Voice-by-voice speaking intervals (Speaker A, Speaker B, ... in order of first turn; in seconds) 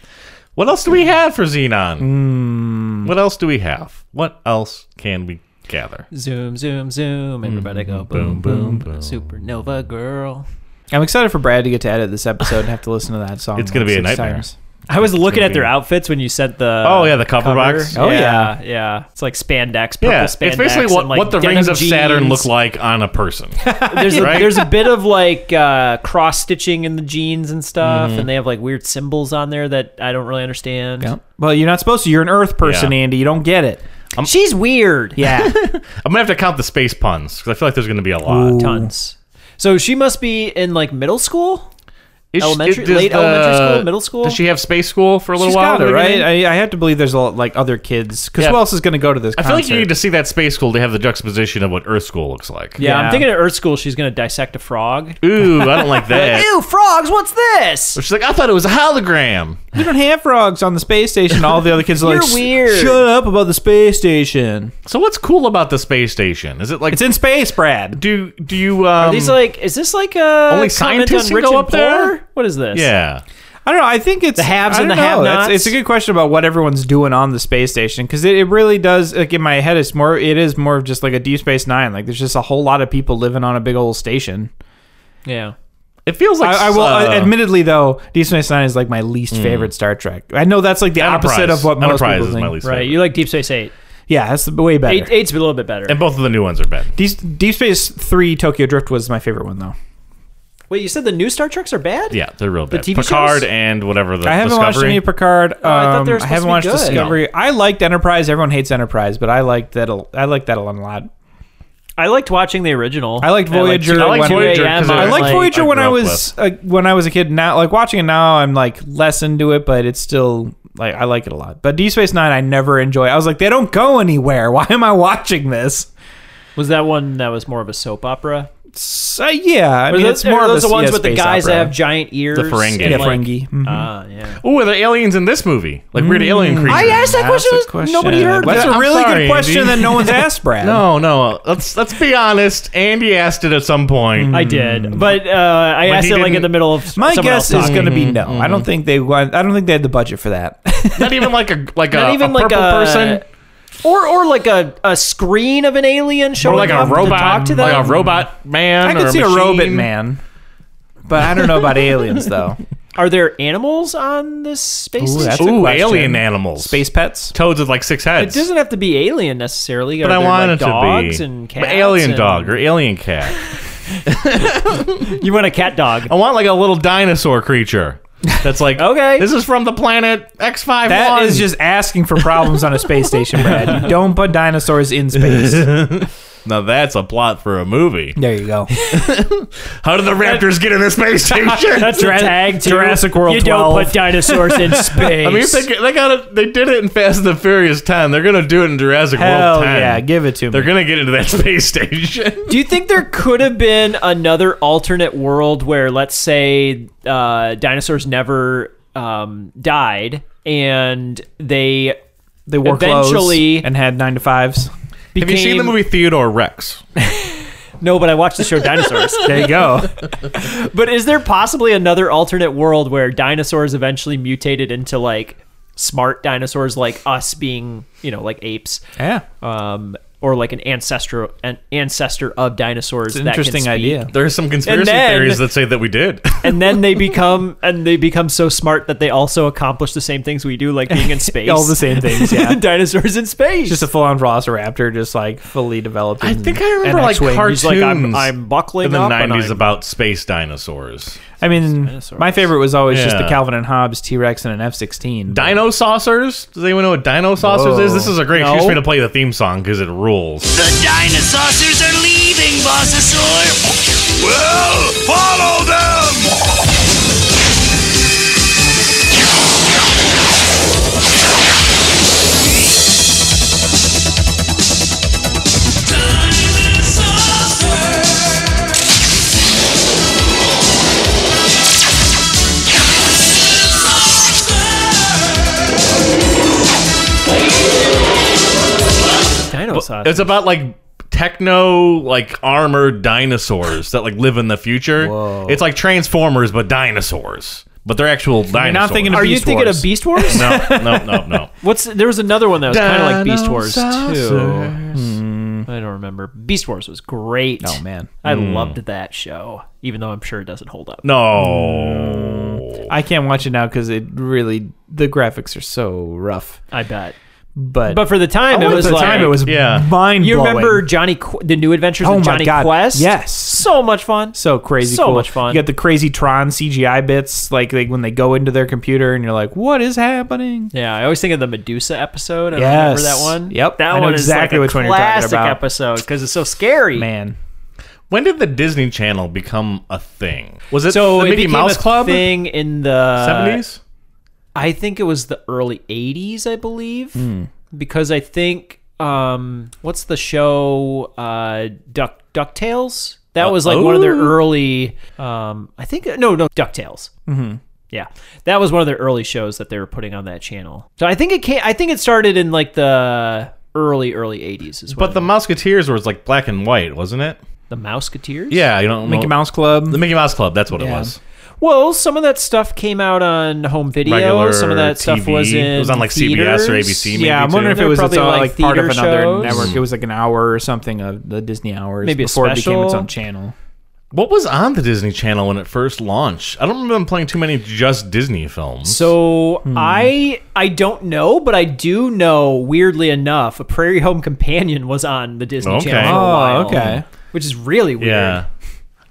Speaker A: 0.6-2.1, 3.0-6.0, 7.4-9.2, 13.6-15.7, 16.8-17.9, 20.0-24.6, 27.8-28.3, 32.6-32.9, 35.2-38.6, 42.3-46.3, 49.4-52.8, 55.2-56.5, 57.9-59.6, 64.8-67.1, 67.9-69.4, 70.5-72.1, 72.7-73.2, 86.0-87.4, 89.3-89.7, 91.0-93.0, 95.9-96.9, 102.1-105.1, 106.9-107.2, 113.9-116.3, 132.3-133.2, 134.4-137.2, 138.4-144.5, 145.8-146.5, 147.5-148.7, 150.9-153.2, 156.4-159.9, 165.4-168.4, 170.0-173.4, 174.1-175.1, 176.1-181.5, 185.2-188.2, 188.8-192.1, 195.2-202.6, 215.2-216.8, 234.1-236.4, 246.2-251.2, 252.9-253.4, 255.3-260.5, 289.7-299.3, 300.3-301.5, 302.7-305.1, 308.2-308.8, 311.0-312.9, 318.5-319.9, 338.1-342.4, 343.2-343.8, 353.4-354.4, 364.9-367.4, 368.5-371.2, 374.0-377.8, 379.4-379.8, 384.1-389.1, 395.6-397.0, 398.0-398.5
Speaker B: 2.0-3.1, 8.5-8.8, 10.9-14.5, 17.9-18.5, 23.6-24.7, 31.0-33.8, 35.1-35.5, 38.2-38.9, 45.4-49.9, 52.8-53.3, 59.7-64.7, 66.9-68.0, 73.6-84.5, 86.4-92.5, 94.1-95.1, 97.0-99.7, 104.2-111.1, 113.2-125.9, 128.7-131.8, 132.8-133.9, 135.9-140.8, 144.2-145.1, 146.9-151.3, 156.4-158.3, 158.8-160.2, 161.1-162.6, 165.0-167.3, 180.8-185.9, 188.2-188.7, 191.7-195.1, 199.1-200.7, 212.5-214.7, 219.2-219.9, 229.0-229.2, 233.1-234.1, 240.9-242.6, 243.7-247.6, 251.4-255.6, 257.4-258.2, 295.0-295.6, 298.5-301.4, 304.9-305.7, 307.6-308.1, 311.4-316.6, 317.6-320.9, 322.0-323.7, 324.3-330.7, 332.5-335.6, 336.9-337.4, 347.1-347.5, 357.3-357.6, 369.0-370.0, 370.7-371.1, 377.1-383.5, 389.6-390.1, 396.0-397.0
Speaker C: 6.1-10.4, 14.9-22.5, 23.9-31.1, 34.2-35.3, 38.5-41.7, 42.4-44.4, 52.8-58.0, 61.9-63.0, 69.0-72.9, 74.3-75.7, 85.2-85.5, 92.6-93.7, 94.9-96.0, 100.7-102.2, 102.7-103.5, 105.6-107.1, 112.0-115.5, 126.5-128.5, 129.9-134.4, 136.7-138.8, 144.3-147.9, 151.9-153.2, 153.8-158.0, 162.9-165.5, 168.2-172.6, 175.0-176.1, 178.8-179.3, 191.7-195.7, 202.5-212.0, 212.6-213.7, 215.1-215.8, 217.8-219.7, 220.3-228.8, 229.4-234.1, 234.6-235.4, 236.4-243.8, 247.2-249.7, 251.4-252.5, 258.3-258.8, 289.5-290.4, 299.1-300.8, 301.6-304.8, 305.7-311.1, 316.7-317.1, 317.9-319.5, 320.2-325.7, 330.7-337.1, 340.9-343.6, 344.5-357.1, 357.9-365.3, 367.7-368.7, 371.6-379.7, 382.0-383.1, 388.8-398.4
Speaker D: 260.5-266.3